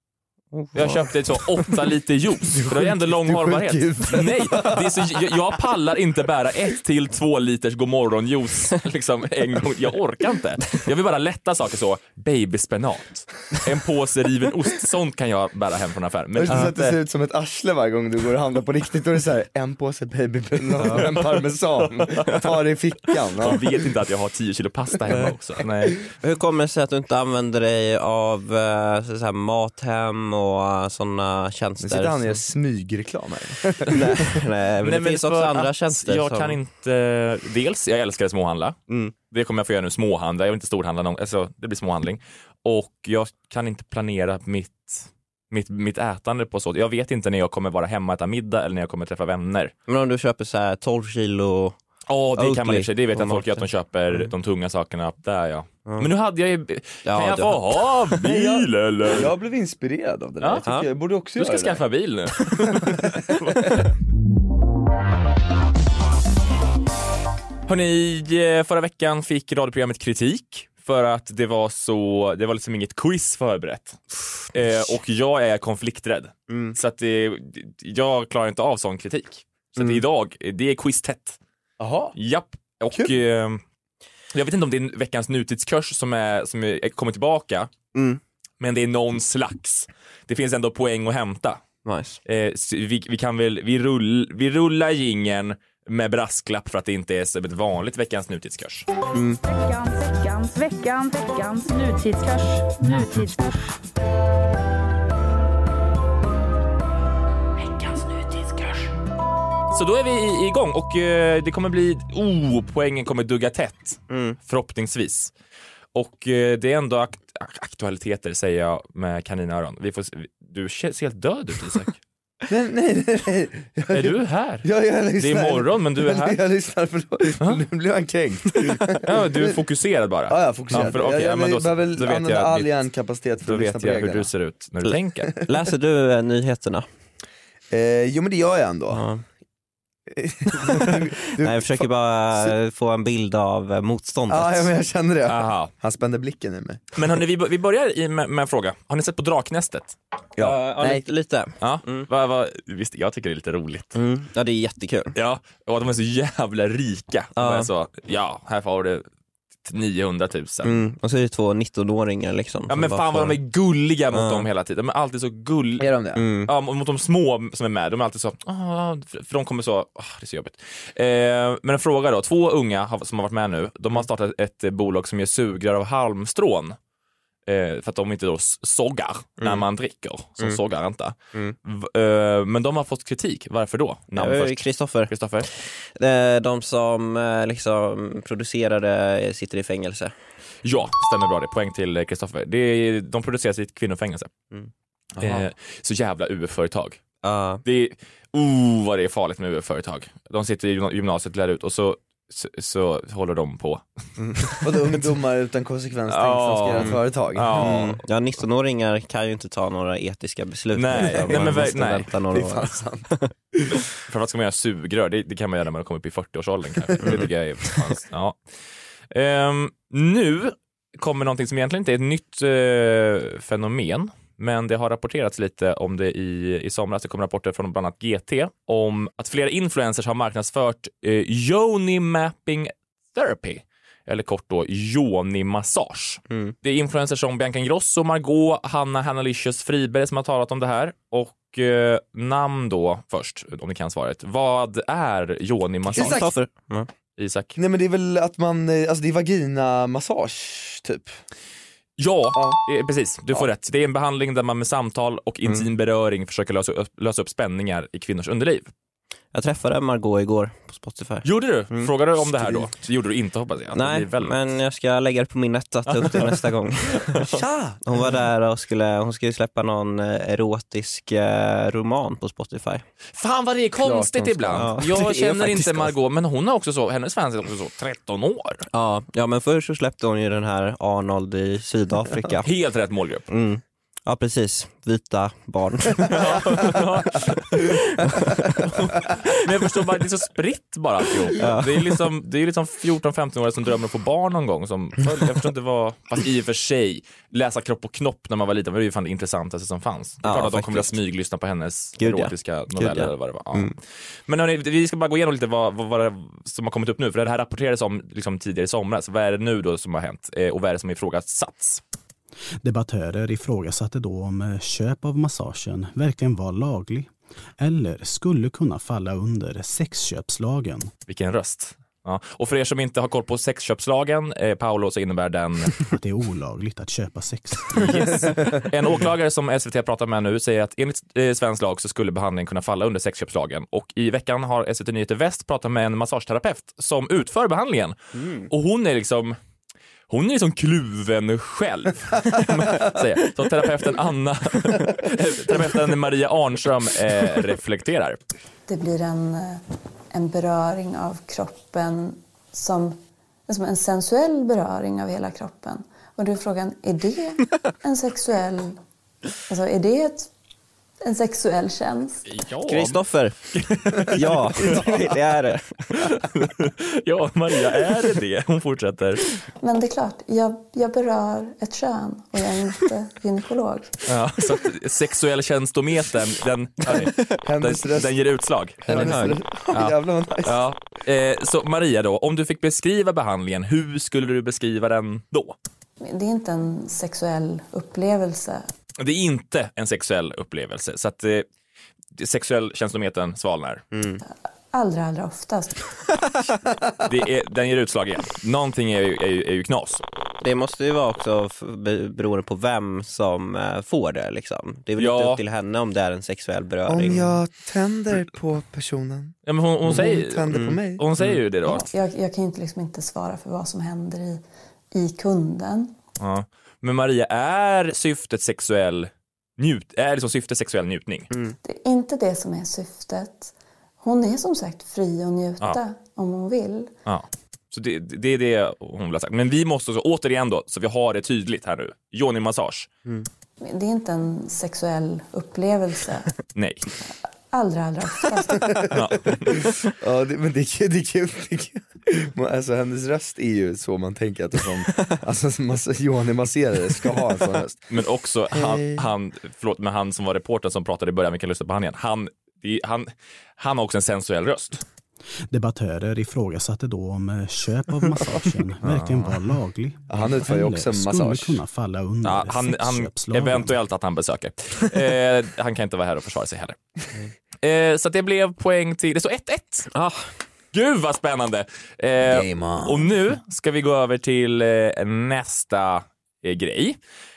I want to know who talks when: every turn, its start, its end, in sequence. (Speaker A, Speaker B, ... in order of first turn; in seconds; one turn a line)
Speaker A: 0.5-1.0
Speaker B: 0.7-16.9
Speaker C: 2.5-5.3
Speaker C: 16.4-23.6
Speaker B: 20.9-21.2
Speaker B: 22.1-22.4
Speaker B: 23.4-26.0
Speaker A: 26.2-32.4
Speaker C: 31.8-34.2
Speaker A: 33.9-36.6
Speaker B: 34.8-38.8
Speaker A: 38.9-39.1
Speaker B: 39.3-49.7
Speaker A: 49.9-51.8
Speaker B: 52.1-59.3
Speaker A: 52.4-54.3
Speaker A: 57.0-57.6
Speaker C: 58.2-61.8
Speaker A: 60.6-60.9
Speaker B: 61.4-63.9
Speaker C: 62.7-63.7
Speaker B: 67.7-81.4
Speaker C: 81.8-82.1
Speaker B: 82.1-83.6
Speaker B: 84.3-87.7
Speaker A: 87.9-88.2
Speaker B: 88.6-91.6
Speaker A: 91.8-92.2
Speaker B: 92.2-98.9
Speaker D: 99.4-103.8
Speaker D: 107.7-108.8
Speaker B: 109.7-115.3
Speaker A: 114.1-114.4
Speaker B: 115.9-122.0
Speaker C: 122.5-129.6
Speaker B: 123.9-126.4
Speaker B: 129.0-132.7
Speaker C: 130.3-134.3
Speaker B: 133.4-135.3
Speaker A: 134.8-136.8
Speaker C: 137.7-139.0
Speaker A: 138.9-139.2
Speaker C: 140.1-142.5
Speaker A: 140.6-144.7
Speaker C: 144.3-146.9
Speaker B: 145.2-145.7
Speaker B: 146.9-149.9
Speaker C: 150.3-151.0
Speaker A: 150.4-152.1
Speaker B: 151.6-153.9
Speaker A: 153.9-155.1
Speaker B: 155.1-159.1
Speaker A: 157.3-157.7
Speaker B: 159.6-160.8
Speaker A: 160.6-163.4
Speaker B: 162.7-165.9
Speaker A: 164.1-164.4
Speaker C: 165.8-166.2
Speaker A: 166.2-166.5
Speaker B: 166.5-176.8
Speaker B: 177.5-185.5
Speaker A: 184.1-190.1
Speaker B: 190.6-194.3
Speaker C: 195.2-195.5
Speaker B: 195.2-197.0
Speaker A: 197.2-197.6
Speaker B: 197.6-203.8
Speaker A: 204.2-204.5
Speaker B: 204.4-204.6
Speaker C: 204.6-208.0
Speaker B: 206.1-208.0
Speaker A: 207.6-213.3
Speaker B: 210.7-212.1
Speaker C: 211.1-211.7
Speaker C: 212.3-213.7
Speaker B: 214.0-218.4
Speaker A: 217.0-217.8
Speaker B: 219.1-246.2
Speaker A: 236.3-236.6
Speaker C: 245.9-246.3
Speaker A: 245.9-246.9
Speaker B: 247.2-247.6
Speaker C: 247.6-251.2
Speaker B: 252.0-258.7
Speaker C: 252.3-252.6
Speaker A: 259.3-261.9
Speaker B: 261.2-264.3
Speaker A: 263.7-267.3
Speaker B: 265.9-266.3
Speaker C: 267.2-267.8
Speaker A: 267.8-272.8
Speaker B: 273.2-278.6
Speaker C: 273.8-275.9
Speaker A: 274.6-275.0
Speaker A: 278.7-282.5
Speaker B: 282.4-283.2
Speaker A: 283.3-286.8
Speaker B: 286.1-287.8
Speaker A: 287.5-288.6
Speaker B: 288.6-311.8
Speaker A: 291.4-292.0
Speaker A: 300.2-301.0
Speaker A: 302.0-303.7
Speaker E: 312.6-320.9
Speaker B: 321.1-325.9
Speaker E: 325.9-328.2
Speaker B: 327.7-337.9
Speaker B: 338.5-339.4
Speaker B: 340.1-348.2
Speaker F: 348.7-358.8
Speaker F: 359.5-360.3
Speaker F: 361.0-362.2
Speaker B: 362.2-364.8
Speaker A: 362.7-363.4
Speaker A: 363.9-366.2
Speaker C: 364.0-365.1
Speaker B: 366.2-369.2
Speaker F: 369.6-373.9
Speaker B: 374.1-385.6
Speaker C: 377.4-378.1
Speaker C: 378.9-380.6
Speaker A: 378.9-379.4
Speaker F: 386.0-388.6
Speaker B: 389.0-391.4
Speaker B: 392.2-393.8
Speaker A: 393.9-394.2
Speaker F: 394.3-395.9
Speaker B: 397.1-400.0
Speaker A: 400.4-407.4
Speaker B: 405.0-405.4
Speaker C: 406.9-411.1
Speaker B: 409.4-411.9
Speaker A: 410.5-410.8
Speaker F: 411.7-415.9
Speaker B: 416.2-421.3
Speaker F: 421.6-426.9
Speaker B: 427.1-432.9
Speaker F: 433.6-436.3
Speaker B: 436.6-436.8
Speaker F: 437.5-438.9
Speaker C: 438.7-447.9
Speaker B: 438.9-439.6
Speaker B: 447.9-454.8
Speaker C: 448.5-449.1
Speaker E: 455.5-463.7
Speaker B: 458.8-459.4
Speaker C: 460.1-461.6
Speaker B: 462.2-466.8
Speaker B: 467.6-469.9
Speaker A: 469.9-470.2
Speaker B: 470.7-477.0
Speaker C: 472.2-473.1